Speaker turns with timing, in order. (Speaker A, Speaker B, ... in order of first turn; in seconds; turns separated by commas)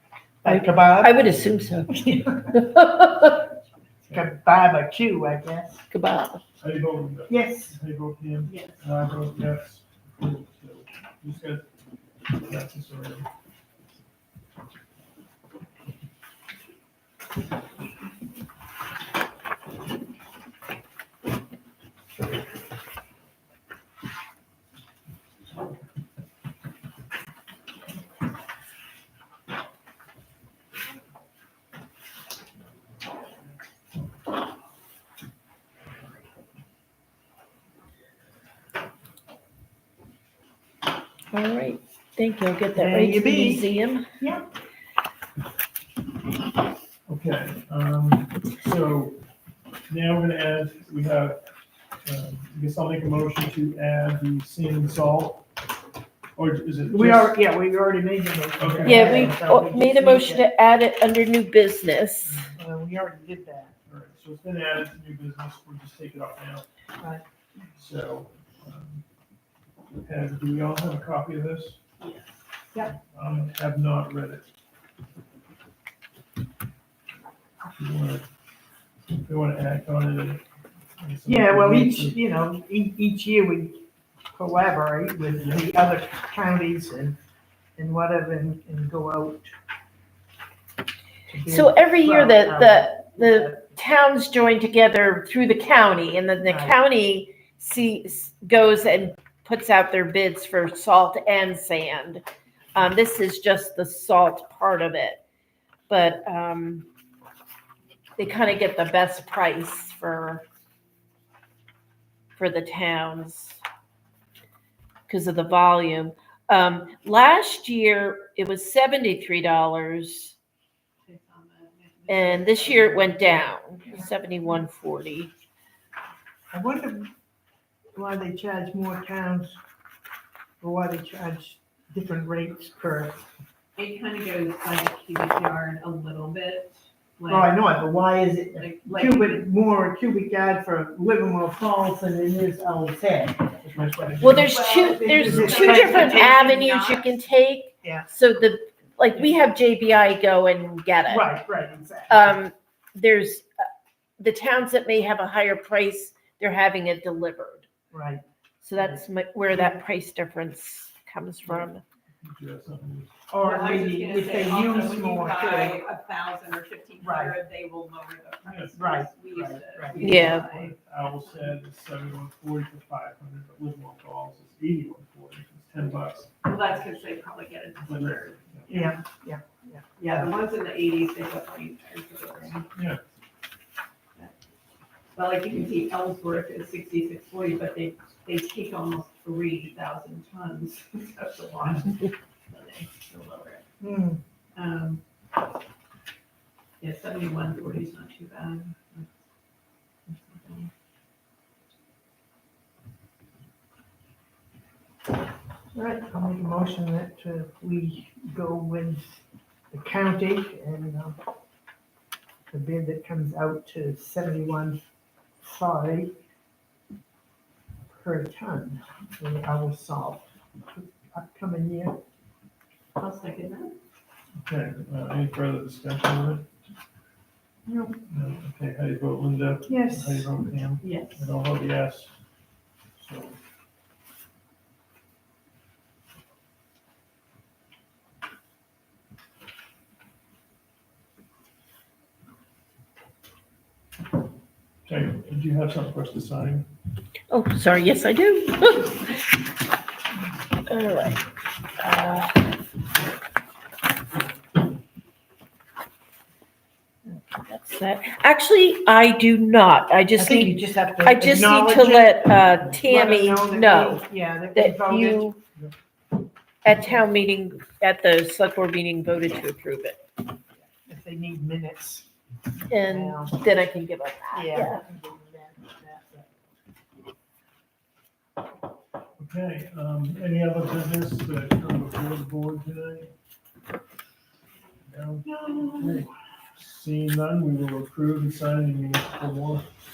Speaker A: 0.4-1.3, Speaker B: 0.5-3.5, Speaker A: 2.0-2.6, Speaker A: 4.1-5.8, Speaker B: 5.9-6.4, Speaker C: 6.6-11.6, Speaker A: 7.3-7.8, Speaker D: 8.4-8.8, Speaker C: 12.3-13.3, Speaker B: 41.3-44.1, Speaker A: 42.8-43.7, Speaker A: 44.2-44.5, Speaker C: 47.1-49.2, Speaker C: 49.9-51.4, Speaker C: 52.0-55.4, Speaker C: 56.4-57.4, Speaker A: 56.9-60.4, Speaker C: 58.6-59.3, Speaker B: 58.9-62.5, Speaker C: 62.2-62.6, Speaker A: 62.6-63.7, Speaker C: 63.9-66.7, Speaker C: 67.8-69.0, Speaker C: 70.0-71.8, Speaker D: 72.0-72.4, Speaker C: 73.1-74.5, Speaker C: 77.7-78.3, Speaker C: 79.1-80.4, Speaker C: 81.0-82.2, Speaker A: 81.2-83.8, Speaker A: 84.3-87.2, Speaker A: 87.8-89.5, Speaker A: 91.3-93.5, Speaker B: 91.5-102.2, Speaker A: 96.5-96.8, Speaker B: 102.8-105.2, Speaker B: 105.9-106.9, Speaker B: 108.2-110.5, Speaker B: 112.4-113.6, Speaker B: 115.1-120.3, Speaker D: 121.1-124.1, Speaker B: 122.1-125.3, Speaker A: 126.5-127.1, Speaker A: 128.0-129.5, Speaker A: 130.6-133.3, Speaker D: 133.8-137.5, Speaker A: 137.3-146.4, Speaker D: 138.6-139.5, Speaker C: 143.8-144.5, Speaker B: 144.2-151.3, Speaker D: 144.4-147.2, Speaker C: 145.3-145.6, Speaker A: 147.8-148.1, Speaker A: 151.1-152.4, Speaker B: 152.1-153.5, Speaker B: 154.2-157.7, Speaker A: 157.9-158.2, Speaker B: 158.6-161.8, Speaker A: 158.8-159.8, Speaker C: 162.2-163.1, Speaker A: 163.3-165.8, Speaker D: 163.4-171.5, Speaker A: 167.0-167.4, Speaker C: 168.4-168.8, Speaker A: 168.8-170.1, Speaker C: 170.0-176.7, Speaker B: 170.0-170.5, Speaker D: 176.4-179.0, Speaker C: 177.8-178.9, Speaker A: 178.7-180.2, Speaker D: 180.0-182.7, Speaker C: 182.8-183.0, Speaker D: 185.2-193.7, Speaker A: 193.8-194.2, Speaker D: 194.6-195.0, Speaker D: 196.8-199.1, Speaker D: 200.1-200.7, Speaker A: 205.7-211.2, Speaker A: 212.5-214.8, Speaker A: 215.4-216.1, Speaker A: 217.9-222.0, Speaker D: 223.0-223.8, Speaker C: 224.4-226.5, Speaker A: 227.7-228.0, Speaker C: 228.1-232.1, Speaker A: 229.7-230.3, Speaker D: 230.8-231.2, Speaker C: 233.0-233.4, Speaker C: 244.9-246.7, Speaker B: 247.3-249.3, Speaker B: 250.7-251.2, Speaker B: 251.8-252.4, Speaker B: 257.1-264.0, Speaker A: 260.2-265.3, Speaker B: 264.6-265.4, Speaker B: 266.6-270.0, Speaker A: 270.6-272.1, Speaker B: 272.7-274.8, Speaker A: 272.9-273.4, Speaker A: 274.3-276.3, Speaker C: 279.2-283.1, Speaker C: 284.9-289.7, Speaker A: 285.2-286.1